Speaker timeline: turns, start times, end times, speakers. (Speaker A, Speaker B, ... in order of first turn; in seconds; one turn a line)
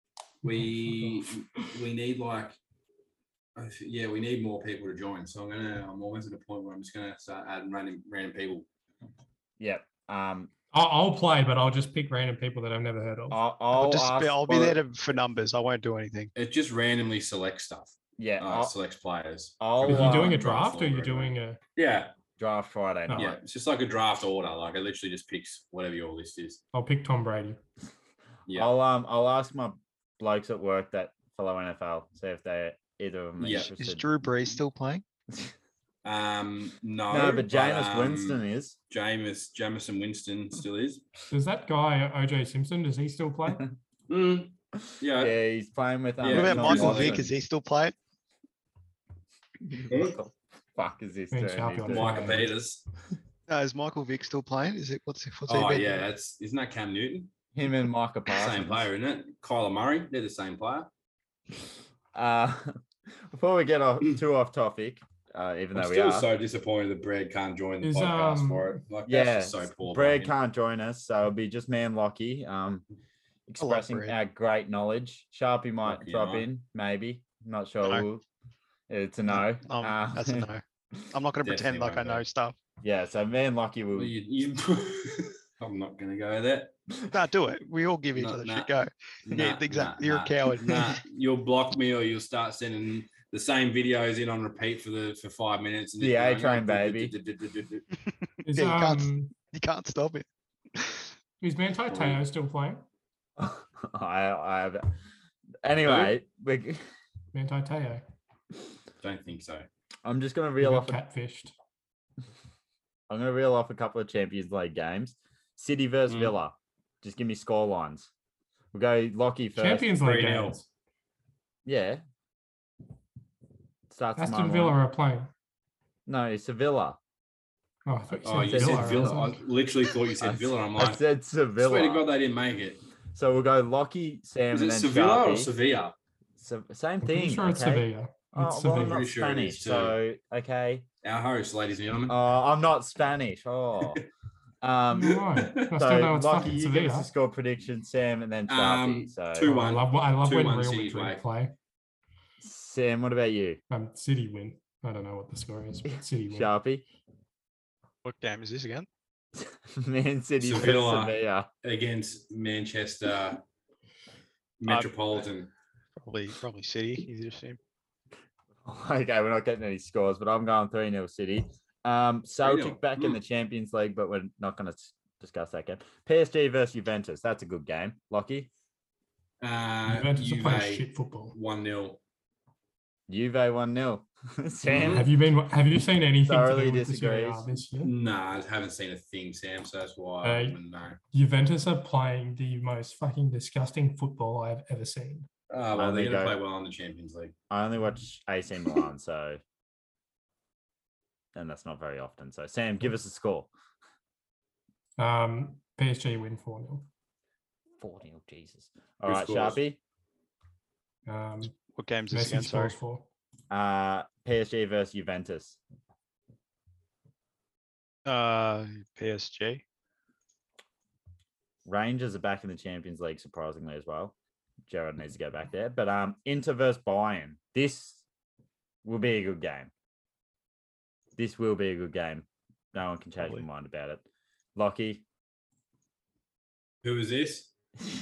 Speaker A: 0.4-2.6
Speaker B: 0.5-1.6
Speaker A: 3.6-8.7
Speaker C: 9.6-10.5
Speaker B: 10.7-13.4
Speaker C: 13.3-14.8
Speaker D: 13.7-16.3
Speaker A: 16.4-20.6
Speaker C: 18.2-18.7
Speaker C: 19.6-21.3
Speaker B: 19.9-21.6
Speaker A: 21.8-22.1
Speaker C: 22.4-23.4
Speaker B: 23.1-23.3
Speaker A: 23.1-26.6
Speaker B: 26.7-27.6
Speaker C: 28.5-34.1
Speaker A: 33.4-33.7
Speaker D: 33.8-35.0
Speaker A: 36.0-41.0
Speaker C: 37.1-38.8
Speaker B: 41.3-43.7
Speaker A: 44.1-45.4
Speaker C: 45.2-47.3
Speaker A: 46.2-47.3
Speaker D: 46.3-48.0
Speaker C: 49.7-52.4
Speaker A: 49.9-50.2
Speaker B: 51.3-52.5
Speaker A: 51.9-52.8
Speaker D: 53.5-56.0
Speaker A: 55.5-57.3
Speaker C: 57.5-58.9
Speaker A: 58.3-60.9
Speaker C: 62.1-66.3
Speaker A: 65.7-70.3
Speaker B: 67.8-68.8
Speaker C: 69.1-72.8
Speaker C: 73.5-78.2
Speaker D: 73.6-74.2
Speaker A: 75.8-76.5
Speaker C: 78.9-80.5
Speaker D: 79.3-82.5
Speaker A: 81.4-82.2
Speaker C: 82.8-84.2
Speaker A: 83.9-86.7
Speaker D: 87.1-91.0
Speaker A: 88.1-88.7
Speaker A: 89.2-97.9
Speaker C: 96.0-97.1
Speaker B: 98.4-99.3
Speaker D: 98.5-101.0
Speaker B: 101.4-102.8
Speaker A: 101.9-102.2
Speaker C: 103.4-104.9
Speaker C: 105.6-106.8
Speaker A: 105.8-106.2
Speaker B: 107.3-108.0
Speaker A: 109.0-109.7
Speaker C: 110.0-111.0
Speaker B: 110.6-111.5
Speaker C: 113.1-118.1
Speaker A: 116.1-116.3
Speaker C: 118.7-119.9
Speaker B: 119.6-120.7
Speaker A: 120.0-120.6
Speaker C: 121.7-122.0
Speaker C: 123.9-124.8
Speaker B: 124.2-125.3
Speaker C: 126.1-127.0
Speaker B: 127.9-129.4
Speaker A: 128.2-131.0
Speaker C: 128.4-129.2
Speaker C: 130.2-132.1
Speaker A: 131.6-132.8
Speaker C: 133.2-135.5
Speaker A: 134.5-135.9
Speaker C: 136.4-140.9
Speaker B: 137.0-139.0
Speaker A: 138.8-140.0
Speaker A: 141.0-142.2
Speaker C: 142.1-144.0
Speaker C: 144.6-149.5
Speaker B: 144.9-147.1
Speaker A: 148.5-151.2
Speaker B: 149.4-151.6
Speaker C: 152.4-153.6
Speaker B: 153.7-156.5
Speaker C: 155.9-156.8
Speaker D: 158.0-158.9
Speaker C: 159.4-161.5
Speaker A: 160.4-163.4
Speaker A: 164.6-165.5
Speaker D: 166.0-167.6
Speaker C: 168.6-178.5
Speaker A: 172.4-173.2
Speaker A: 179.4-182.0
Speaker B: 179.9-181.3
Speaker C: 183.1-185.1
Speaker A: 184.7-185.1
Speaker B: 184.9-187.9
Speaker C: 186.2-187.4
Speaker A: 187.8-191.0
Speaker B: 190.2-190.6
Speaker B: 191.1-195.3
Speaker A: 195.5-197.3
Speaker C: 195.7-196.4
Speaker C: 197.5-199.4
Speaker C: 201.3-203.5
Speaker B: 205.0-206.9
Speaker C: 207.8-209.8
Speaker A: 209.0-209.6
Speaker B: 211.1-211.6
Speaker D: 211.7-212.8
Speaker B: 212.1-213.1
Speaker C: 213.5-215.6
Speaker D: 218.1-219.6
Speaker C: 221.7-224.2
Speaker C: 224.7-228.0
Speaker C: 228.8-229.7
Speaker C: 231.2-234.0
Speaker C: 234.6-235.0
Speaker A: 236.8-237.5